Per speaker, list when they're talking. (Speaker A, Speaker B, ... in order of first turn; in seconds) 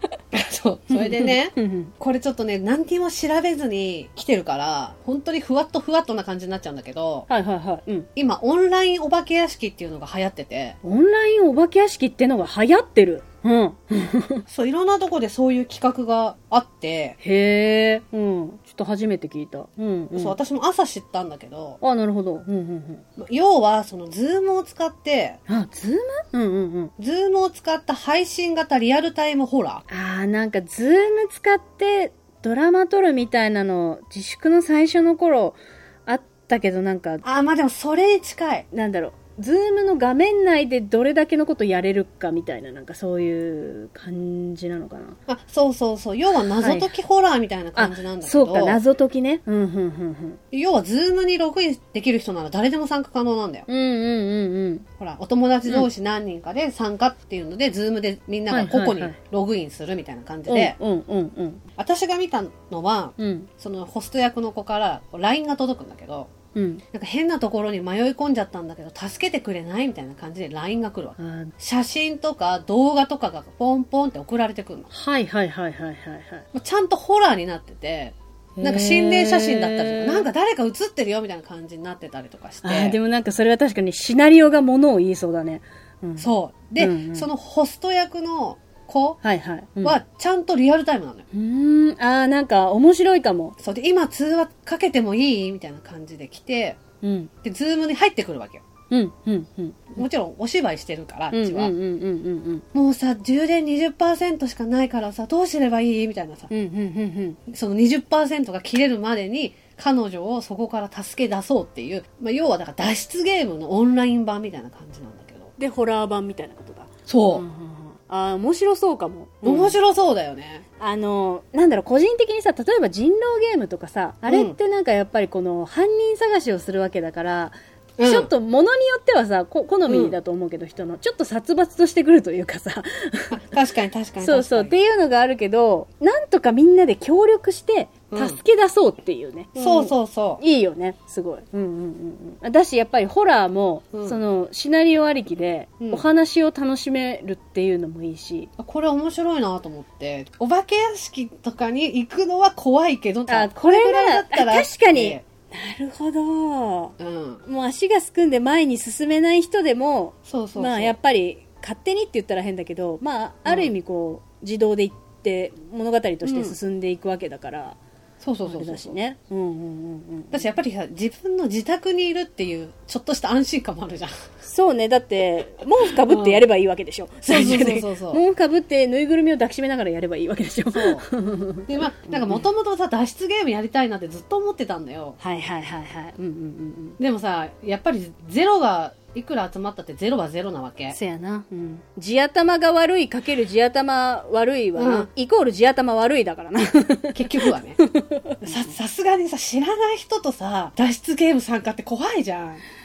Speaker A: 0.3-7.3, 8.2-10.8, 14.5-17.2, 20.1-21.8, 23.2-25.4, 27.0-29.8, 37.2-38.7, 45.3-48.8, 50.5-53.7, 55.0-60.8, 61.8-66.3, 66.9-74.9, 76.5-83.0, 86.2-89.2, 89.8-91.3, 93.6-96.8, 97.4-98.6, 99.9-101.7, 102.7-106.5, 107.5-115.5, 117.1-117.4, 119.4-120.6, 124.3-124.6, 128.0-128.3, 129.9-130.2, 133.3-134.8, 138.1-138.4, 139.6-140.4, 143.9-144.2, 145.8-146.1, 148.6-155.2, 157.0-157.4, 160.3-160.9, 163.5-163.7, 166.2-166.6, 168.2-169.0, 170.3-174.2, 176.0-176.5, 177.2-178.2, 180.7-181.1, 181.7-185.2, 187.0-191.0, 194.8-195.1, 197.1-197.8, 198.4-202.6
Speaker B: 0.9-1.9, 7.3-8.1, 10.8-14.4, 17.2-20.4, 21.8-23.1, 25.5-26.9, 29.9-37.2, 38.7-45.2, 46.6-46.9, 47.8-50.4, 53.7-54.9, 58.5-59.2, 60.5-61.6, 63.2-63.5, 66.5-66.8, 71.2-71.5, 74.9-76.5, 78.6-80.3, 82.6-87.3, 89.2-90.0, 91.3-93.6, 97.0-97.3, 98.9-100.0, 101.3-102.7, 106.5-107.4, 115.6-119.8, 120.8-133.4, 134.2-148.5, 153.3-167.8, 168.4-170.5, 174.4-182.5, 185.2-187.0, 190.9-198.8